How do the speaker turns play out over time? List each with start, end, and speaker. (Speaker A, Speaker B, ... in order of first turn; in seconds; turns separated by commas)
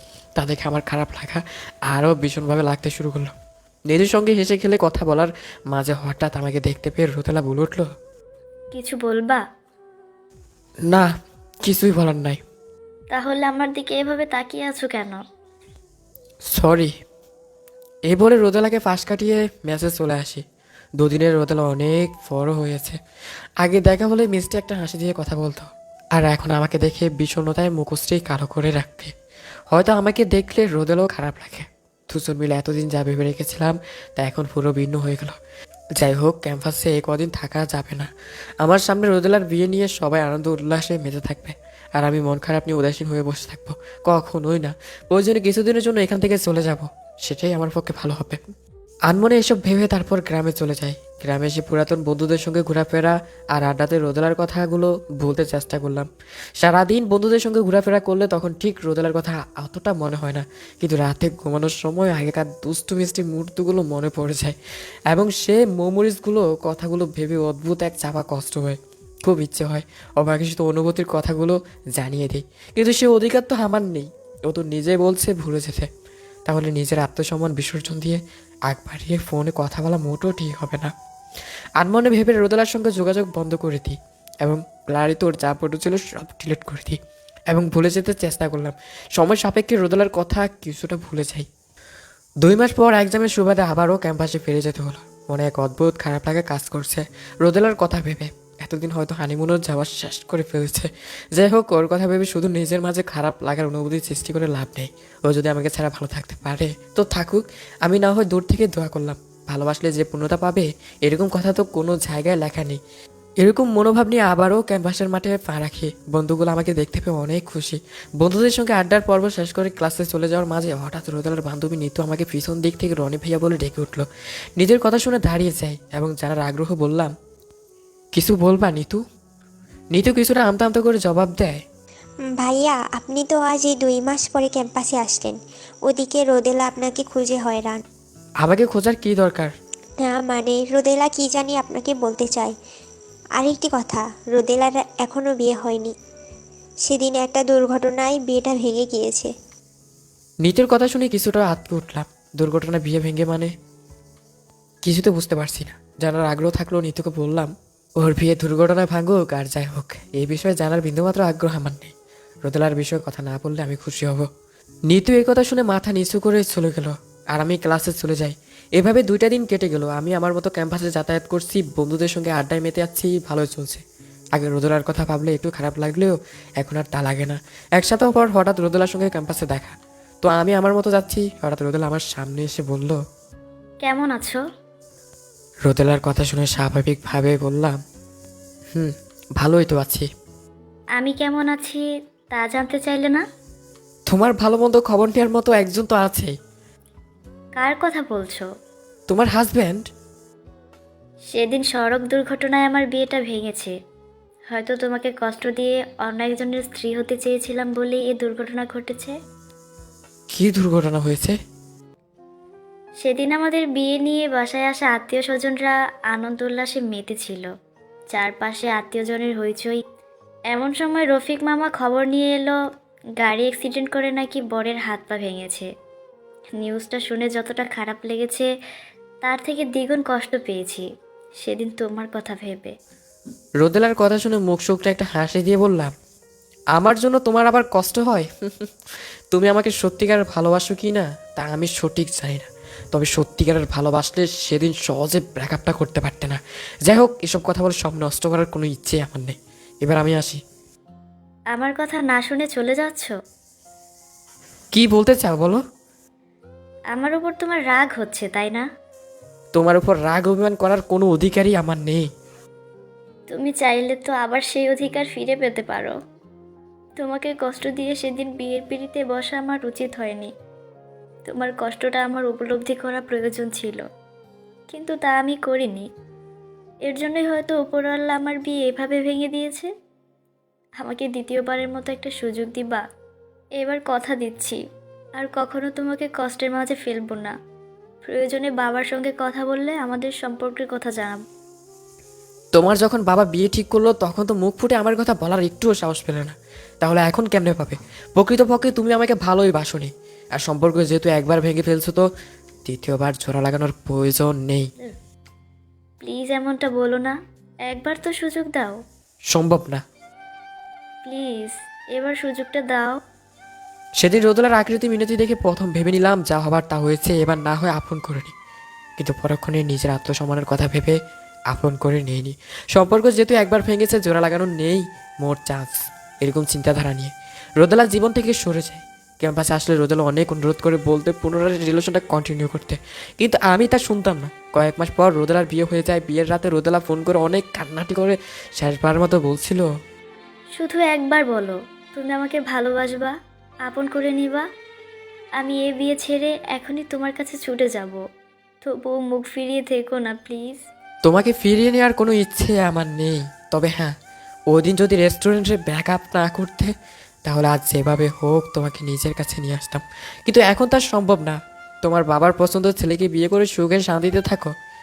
Speaker A: 0.4-3.3, Speaker A: 3.9-7.9, Speaker B: 8.7-9.4, Speaker A: 11.7-12.4, Speaker B: 13.1-15.2, Speaker A: 16.5-16.9, Speaker A: 18.1-20.4, Speaker A: 21.0-23.0, Speaker A: 23.6-29.1, Speaker A: 29.7-35.4, Speaker A: 36.0-48.4, Speaker A: 49.1-56.1, Speaker A: 56.6-64.5, Speaker A: 65.1-75.9, Speaker A: 76.5-80.9, Speaker A: 81.8-87.0, Speaker A: 87.5-91.5, Speaker A: 92.4-112.8, Speaker A: 113.4-124.1, Speaker A: 124.6-127.1, Speaker A: 128.1-129.0, Speaker A: 129.9-131.6, Speaker C: 132.4-137.8, Speaker A: 138.4-139.5, Speaker C: 140.0-142.5, Speaker C: 143.4-145.9, Speaker C: 146.9-149.3, Speaker A: 150.4-153.5, Speaker A: 154.8-161.9, Speaker A: 162.4-164.3, Speaker A: 164.9-173.8, Speaker A: 174.4-183.0, Speaker B: 183.8-184.4, Speaker A: 185.7-187.8, Speaker A: 188.7-190.1, Speaker B: 191.0-193.2, Speaker A: 194.1-196.3, Speaker B: 197.6-198.5, Speaker A: 199.1-199.9, Speaker B: 201.3-203.7, Speaker B: 204.5-209.2, Speaker A: 210.3-211.3, Speaker B: 213.0-217.5, Speaker B: 218.1-219.8, Speaker B: 220.5-222.5, Speaker B: 223.2-225.7, Speaker B: 226.6-228.5, Speaker B: 229.2-230.9, Speaker B: 231.4-232.8, Speaker A: 233.6-235.9, Speaker A: 236.8-238.7, Speaker A: 239.3-250.4, Speaker B: 251.5-253.1, Speaker A: 254.7-255.6, Speaker B: 256.9-258.6, Speaker A: 259.6-262.1, Speaker B: 263.3-265.9, Speaker B: 267.0-270.3, Speaker B: 271.3-273.8, Speaker B: 274.7-275.9, Speaker B: 276.9-279.7, Speaker B: 280.8-282.8, Speaker B: 283.6-284.6, Speaker B: 285.2-287.3, Speaker B: 288.0-291.2, Speaker A: 292.6-302.1, Speaker A: 302.7-304.7, Speaker B: 306.0-307.1, Speaker B: 307.7-308.8, Speaker A: 309.3-309.8, Speaker B: 311.1-313.0, Speaker A: 314.0-318.3, Speaker A: 319.0-321.0, Speaker A: 321.5-339.7, Speaker B: 340.6-343.1, Speaker B: 343.7-344.5, Speaker B: 345.4-348.0, Speaker B: 348.6-350.6, Speaker A: 351.1-353.9, Speaker A: 354.5-356.7, Speaker A: 357.2-364.5